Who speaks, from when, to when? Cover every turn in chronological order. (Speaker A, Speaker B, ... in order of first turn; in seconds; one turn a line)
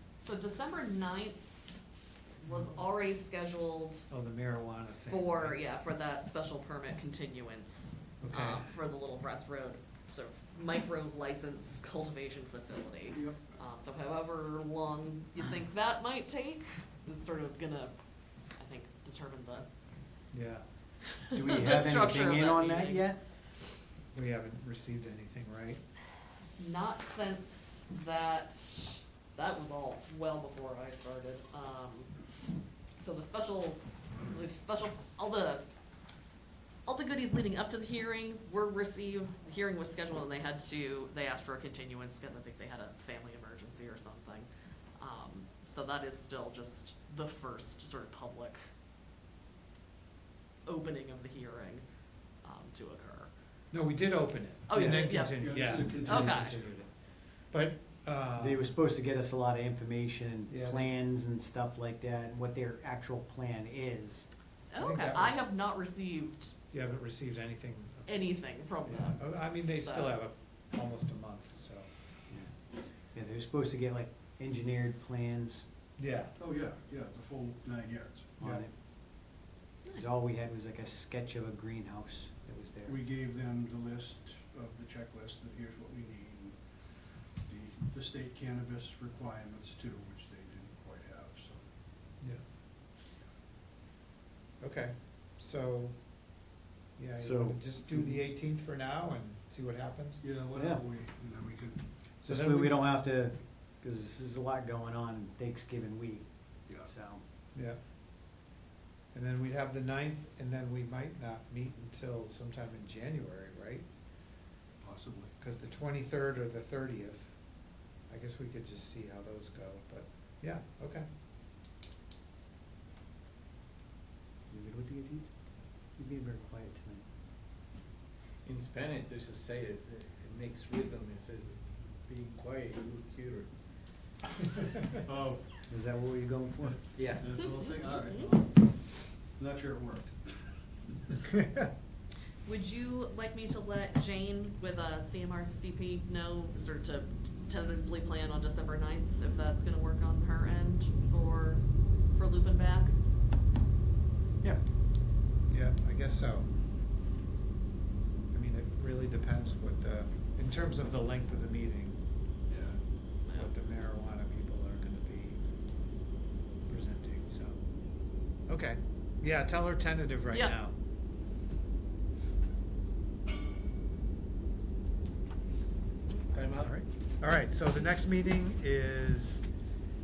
Speaker A: 0.2-1.8
Speaker A: 2.4-4.0
Speaker B: 2.5-2.7
Speaker B: 4.1-5.6
Speaker A: 5.0-17.9
Speaker B: 8.2-8.7
Speaker C: 13.1-13.4
Speaker A: 18.6-19.6
Speaker B: 20.3-20.6
Speaker D: 21.3-23.2
Speaker A: 21.5-23.1
Speaker B: 24.1-25.8
Speaker A: 26.6-32.1
Speaker A: 33.0-35.6
Speaker A: 36.9-48.6
Speaker A: 50.6-51.8
Speaker A: 52.4-53.3
Speaker B: 53.7-56.9
Speaker A: 54.7-56.5
Speaker D: 54.7-55.1
Speaker C: 55.4-56.6
Speaker B: 57.5-58.7
Speaker D: 58.4-64.3
Speaker B: 60.5-60.9
Speaker A: 64.7-66.5
Speaker B: 64.8-65.4
Speaker B: 66.7-68.2
Speaker A: 68.1-70.2
Speaker B: 68.8-71.9
Speaker D: 72.3-75.6
Speaker B: 76.0-76.3
Speaker C: 76.4-78.4
Speaker D: 78.4-78.7
Speaker B: 78.4-78.6
Speaker A: 79.8-80.1
Speaker D: 79.9-83.0
Speaker C: 82.8-91.7
Speaker B: 94.6-96.0
Speaker B: 97.0-100.2
Speaker D: 97.2-98.2
Speaker C: 100.2-101.8
Speaker D: 100.5-100.8
Speaker B: 102.2-102.8
Speaker D: 102.2-107.2
Speaker B: 109.1-113.8
Speaker C: 114.8-115.3
Speaker B: 115.4-117.4
Speaker B: 118.1-121.1
Speaker D: 124.5-125.3
Speaker D: 125.9-127.0
Speaker E: 128.4-133.5
Speaker C: 135.1-135.4
Speaker D: 135.7-136.9
Speaker E: 136.9-137.3
Speaker C: 137.2-140.5
Speaker B: 141.3-141.7
Speaker A: 142.4-152.9
Speaker B: 155.5-156.5
Speaker B: 158.3-162.0
Speaker C: 162.5-162.8
Speaker B: 163.3-165.4
Speaker B: 166.7-167.6
Speaker B: 168.4-170.7
Speaker A: 170.3-170.6
Speaker E: 176.3-176.8
Speaker B: 176.6-179.4